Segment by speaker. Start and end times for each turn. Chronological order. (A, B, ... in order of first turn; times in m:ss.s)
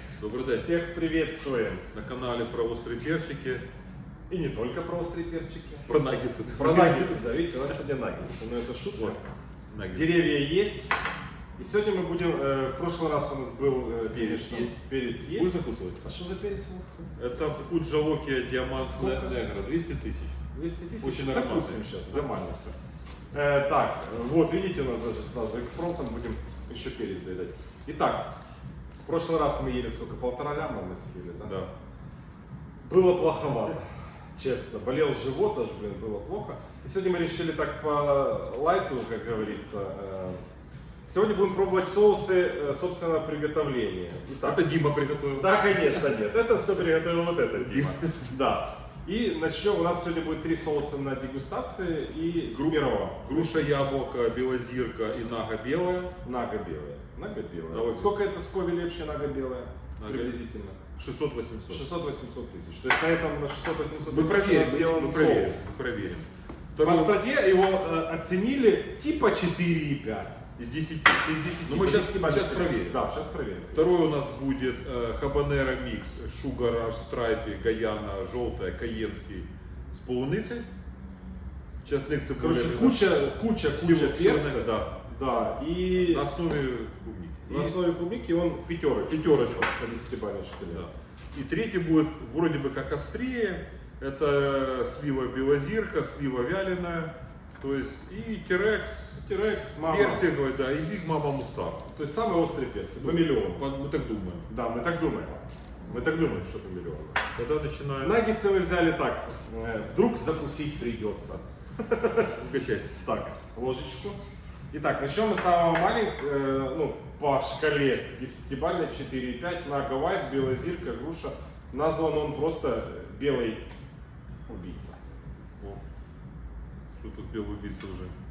0:00.2-0:00.7 A
0:00.5-0:01.8 B
0:01.9-0:03.6 A
0:04.3-0:05.9 B
0:05.9-0:07.4 A
0:06.5-0:09.2 B
0:09.7-0:10.4 A
0:09.9-0:10.9 B
0:11.6-0:17.7 B
0:14.1-0:16.1 A
0:17.2-0:20.4 A
0:18.8-0:19.3 B
0:20.5-0:22.8 B
0:21.0-0:22.2 A
0:23.3-0:28.3 B
0:29.0-0:31.6 B
0:31.4-0:31.7 A
0:32.8-0:40.4 B
0:41.0-0:44.6 B
0:44.4-0:45.6 A
0:45.3-0:53.6 B
0:47.5-0:48.2 A
0:52.5-0:56.1 A
0:56.2-1:00.8 B
0:57.7-0:58.2 A
1:00.0-1:00.3 A
1:01.0-1:01.8 A
1:01.7-1:05.6 B
1:04.0-1:07.2 A
1:06.8-1:10.4 B
1:10.6-1:13.0 A
1:11.2-1:13.9 B
1:13.7-1:20.6 A
1:21.8-1:25.0 A
1:22.4-1:26.3 B
1:25.9-1:27.8 A
1:27.5-1:30.9 B
1:29.1-1:29.7 A
1:30.7-1:39.2 A
1:39.2-1:40.2 B
1:39.8-1:41.8 A
1:41.9-1:43.6 B
1:43.0-1:44.5 A
1:44.5-1:47.2 B
1:47.3-1:48.2 A
1:48.0-1:52.3 B
1:52.3-1:52.9 A
1:52.9-1:54.2 B
1:54.7-2:03.6 B
2:04.5-2:05.0 B
2:07.0-2:08.1 A